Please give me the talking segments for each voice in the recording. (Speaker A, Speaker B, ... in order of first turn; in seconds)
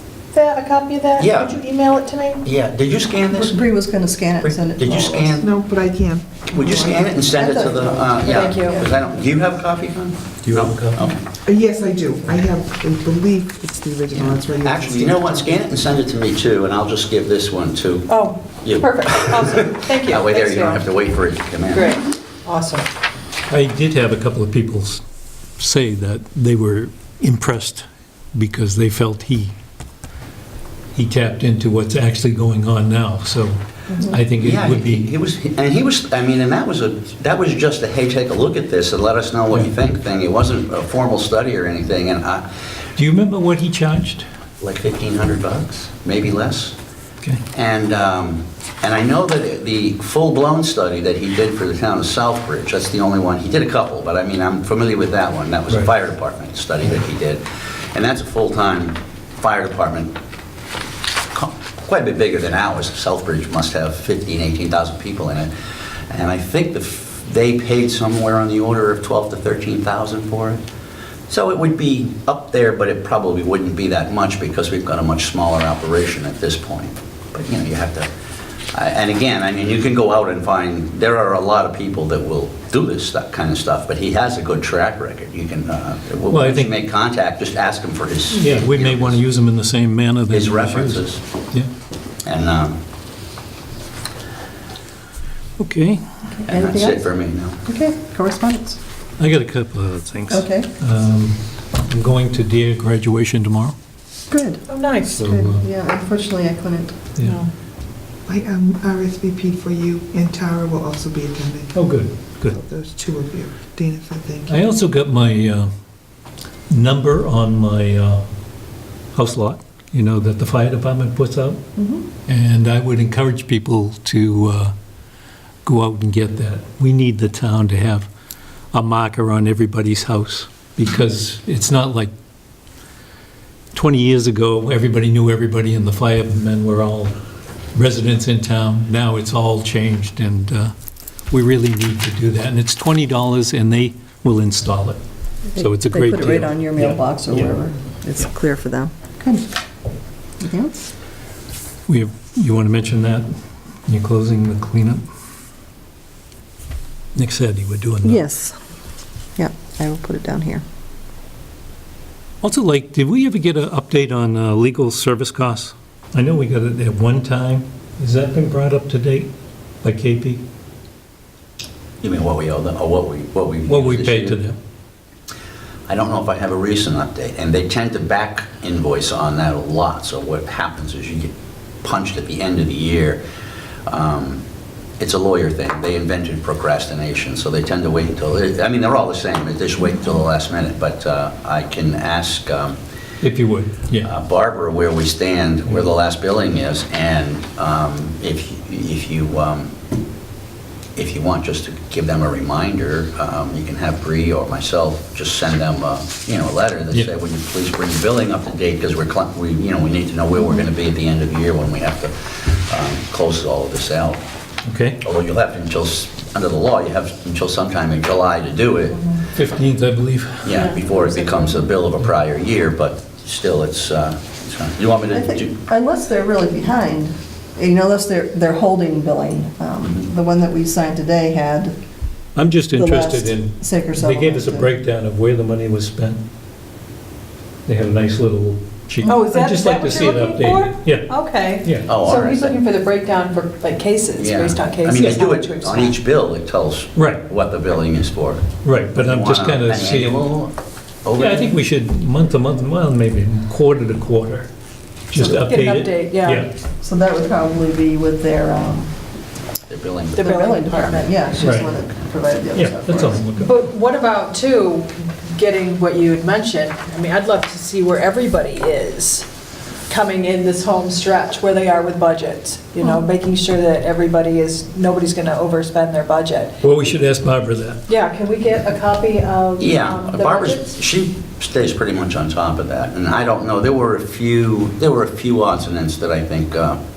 Speaker A: 0.3-2.4, 8.2-8.8, 18.1-20.8, 21.7-22.9, 104.7-105.2, 107.2-107.5, 239.0-246.0, 255.1-256.5, 260.1-261.0, 263.4-269.3, 269.9-276.5, 277.9-280.8
Speaker B: 1.2-1.6, 2.4-3.7, 4.4-5.5, 6.5-11.2, 14.2-18.1, 18.6-22.0, 34.3-42.4, 44.6-46.7, 47.5-60.1, 61.3-65.5, 66.1-70.6, 71.3-78.1, 78.7-89.2, 90.3-91.2, 92.2-92.8, 96.5-97.6, 172.0-174.4, 175.9-181.3, 181.8-183.2, 183.9-184.4, 185.0-192.8, 194.0-199.7, 200.9-214.2, 215.0-219.1, 220.4-225.6, 241.8-242.6, 244.2-250.5, 251.0-251.6, 259.7-261.1, 279.6-286.8
Speaker C: 3.3-5.4, 7.3-8.9, 96.3-97.1, 97.6-98.8, 100.3-100.7, 104.3-106.9, 121.8-122.0, 145.5-149.4, 150.4-150.9, 158.0-158.6, 159.4-160.6, 221.2-221.4, 225.1-231.7, 232.7-234.7, 256.8-258.9, 260.2-263.3
Speaker D: 5.4-7.3, 11.4-15.6, 108.2-111.9, 112.4-114.7
Speaker E: 10.4-11.1, 23.5-25.0, 25.6-29.5, 30.9-35.1, 43.0-44.2, 86.3-86.7, 88.3-91.7, 95.6-96.0, 99.2-103.7, 105.1-105.6, 111.7-112.5, 114.5-115.7, 116.7-118.3, 119.1-121.6, 122.2-124.7, 125.6-128.1, 128.7-132.1, 133.7-137.1, 137.7-140.7, 141.3-145.0, 145.5-147.5, 151.9-153.3, 153.8-155.0, 157.1-158.2, 162.4-169.3, 169.8-170.4, 173.7-174.5, 193.2-194.1, 214.6-215.0, 219.3-220.6, 232.3-236.2, 237.7-241.1, 241.6-241.9, 246.9-247.2, 248.6-250.2, 251.1-254.5, 255.1-256.5, 261.4-261.7, 262.5-263.5, 276.6-277.8